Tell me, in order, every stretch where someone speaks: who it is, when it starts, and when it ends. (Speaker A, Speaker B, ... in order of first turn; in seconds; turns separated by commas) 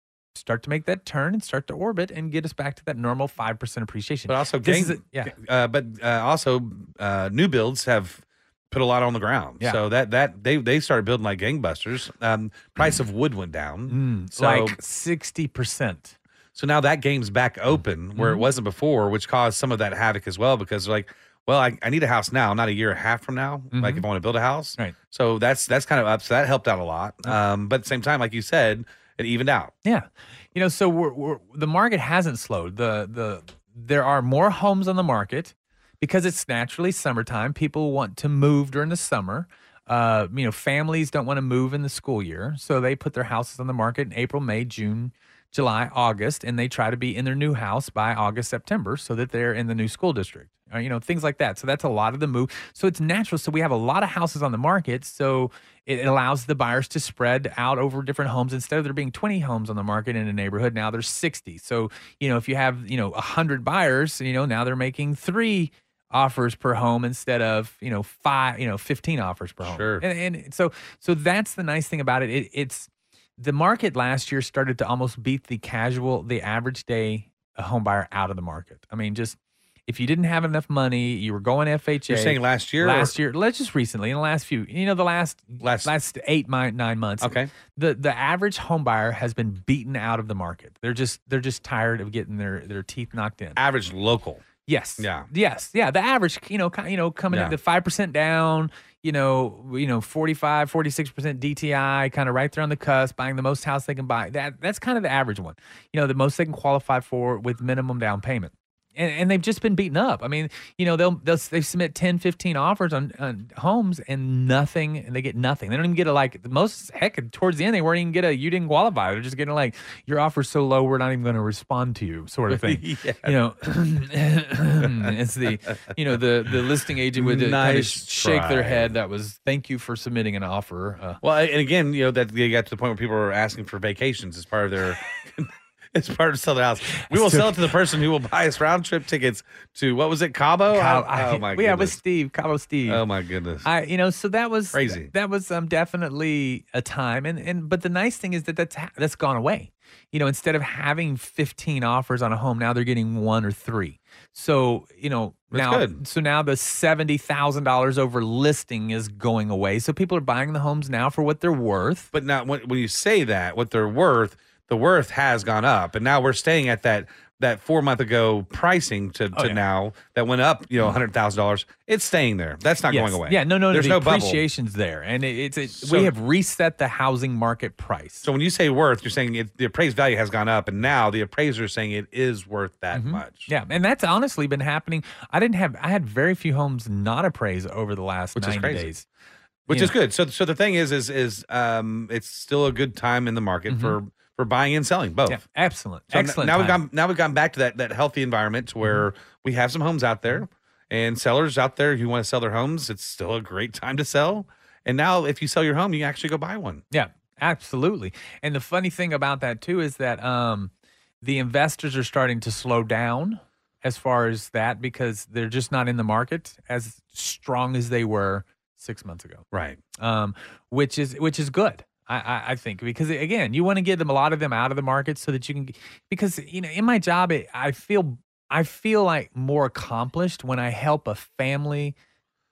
Speaker A: 0.3-5.3, Speaker B: 4.3-14.8, Speaker A: 13.9-16.1, Speaker B: 16.5-29.7, Speaker A: 18.1-18.4, Speaker A: 23.7-24.1, Speaker A: 29.8-93.6, Speaker B: 69.6-70.0, Speaker B: 82.1-83.1, Speaker B: 85.6-85.9, Speaker B: 87.2-87.5, Speaker B: 93.5-94.5, Speaker A: 94.6-131.2, Speaker B: 95.0-95.3, Speaker B: 122.5-123.3, Speaker B: 124.8-125.1, Speaker B: 127.1-128.9, Speaker B: 131.2-142.0, Speaker A: 136.9-137.7, Speaker A: 140.7-143.0, Speaker B: 142.9-143.7, Speaker A: 143.6-162.1, Speaker B: 144.7-145.1, Speaker B: 155.5-156.0, Speaker B: 162.1-174.4, Speaker A: 169.3-169.6, Speaker A: 172.9-178.3, Speaker B: 175.8-176.1, Speaker B: 178.2-183.5, Speaker A: 182.9-189.0, Speaker B: 188.3-188.9, Speaker B: 189.7-195.4, Speaker A: 189.7-189.9, Speaker A: 193.7-194.0, Speaker A: 195.3-196.8, Speaker B: 196.1-206.8, Speaker A: 206.9-210.7, Speaker A: 211.2-219.4, Speaker B: 219.5-219.8, Speaker A: 220.0-231.9